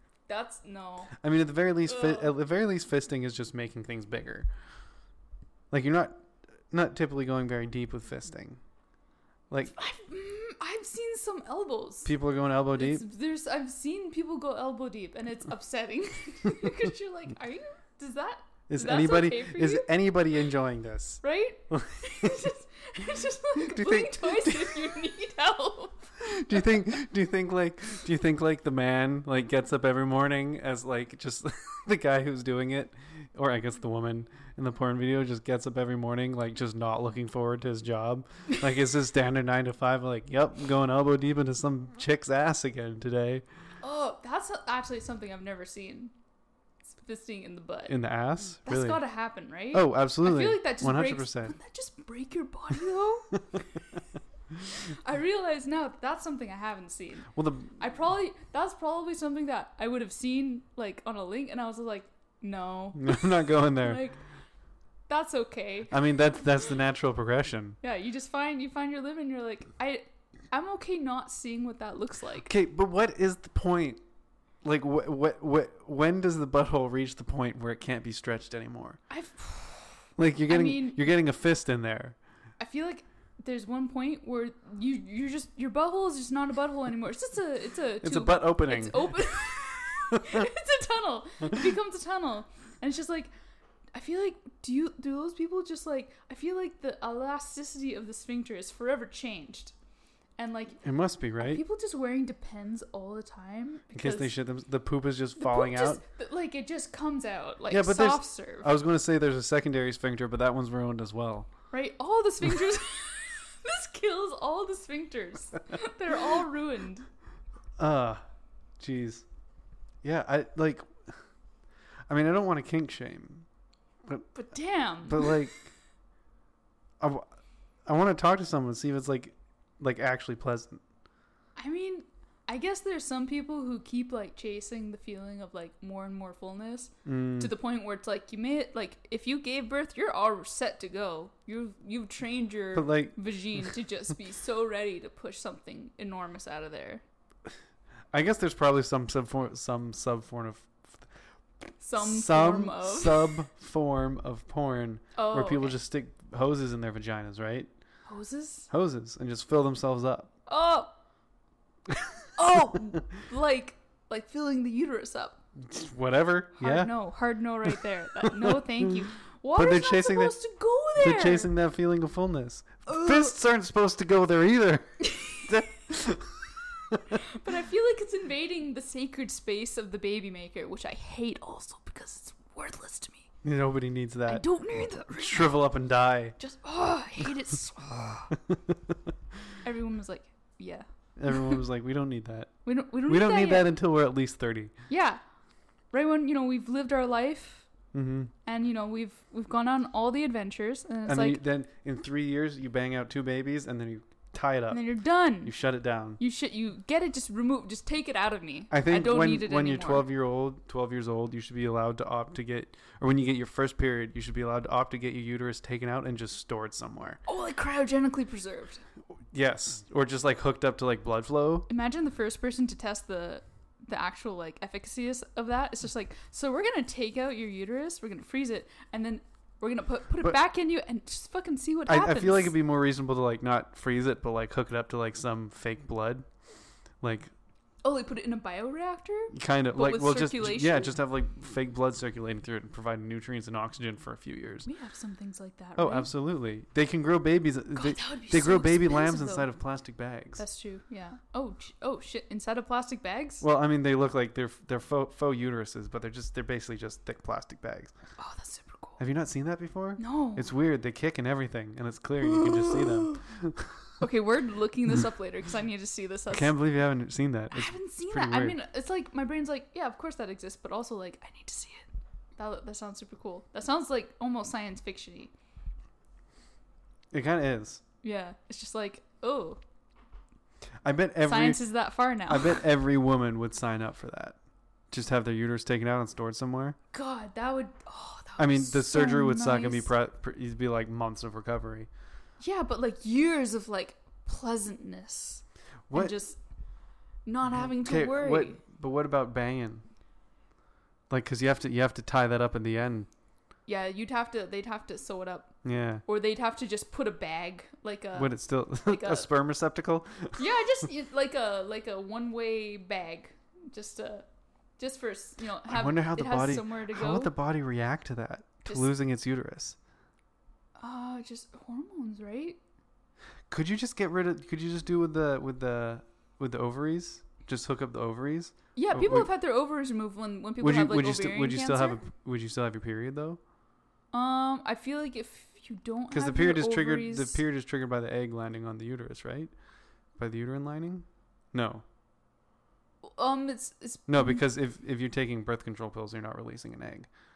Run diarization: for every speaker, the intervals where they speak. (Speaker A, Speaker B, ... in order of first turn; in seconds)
Speaker A: 0.3-1.1, 1.9-2.3, 9.7-12.1, 12.8-19.9, 21.2-26.6, 43.8-46.1, 46.9-48.0, 48.6-53.4, 54.7-64.2, 65.1-65.9, 67.8-72.5, 79.1-81.0, 82.6-93.3, 93.9-99.7, 100.4-100.8, 101.4-104.3, 105.4-108.7, 111.7-117.1, 124.3-125.4, 131.6-147.0, 151.8-153.4, 155.2-155.8, 158.1-158.7, 160.5-160.9, 162.4-165.4, 166.6-171.5, 172.9-173.3, 177.2-183.3, 184.3-185.6, 186.4-188.3, 189.6-191.6, 192.7-193.7, 194.9-195.2, 195.9-197.7, 198.5-201.4, 204.7-205.5, 206.2-210.1, 217.3-218.8, 221.7-232.5, 237.8-241.0, 244.7-246.1, 247.8-249.5, 250.4-253.4, 258.2-259.0, 260.0-260.5, 264.0-266.5, 267.5-275.3, 278.0-279.6, 281.3-282.6, 286.9-289.9, 292.4-296.4, 297.2-298.6, 303.7-309.3, 310.4-314.3, 314.8-317.3, 320.8-322.6, 328.8-332.0, 334.1-337.4, 343.0-344.4
Speaker B: 1.2-4.5, 5.7-8.6, 9.5-9.8, 12.1-13.1, 18.7-22.5, 23.5-24.8, 26.2-43.5, 47.9-49.0, 49.7-51.6, 57.3-57.8, 63.0-64.0, 65.9-67.8, 72.5-74.0, 74.6-79.0, 80.2-82.2, 88.0-90.5, 100.8-101.6, 103.9-106.0, 107.7-111.5, 117.8-118.2, 118.8-119.2, 120.0-121.2, 122.1-123.5, 125.0-125.7, 127.0-127.2, 127.9-130.8, 137.1-137.5, 142.7-143.2, 148.1-151.1, 152.0-157.7, 158.7-160.3, 165.6-166.9, 168.2-168.6, 169.6-170.3, 171.0-177.2, 183.4-186.4, 188.3-189.0, 191.2-192.5, 193.1-194.7, 197.9-198.3, 201.1-204.8, 205.4-206.2, 208.7-217.2, 219.3-221.7, 231.9-236.3, 237.0-237.3, 239.3-244.7, 245.8-250.4, 253.4-257.9, 259.0-263.9, 266.3-268.6, 277.1-277.8, 280.8-281.6, 282.3-284.4, 284.9-286.8, 288.4-291.9, 295.9-296.1, 297.5-299.9, 301.1-303.1, 305.6-306.0, 308.1-310.4, 315.7-319.8, 323.5-329.3, 330.6-333.4, 336.1-339.5, 340.2-341.8, 344.1-347.1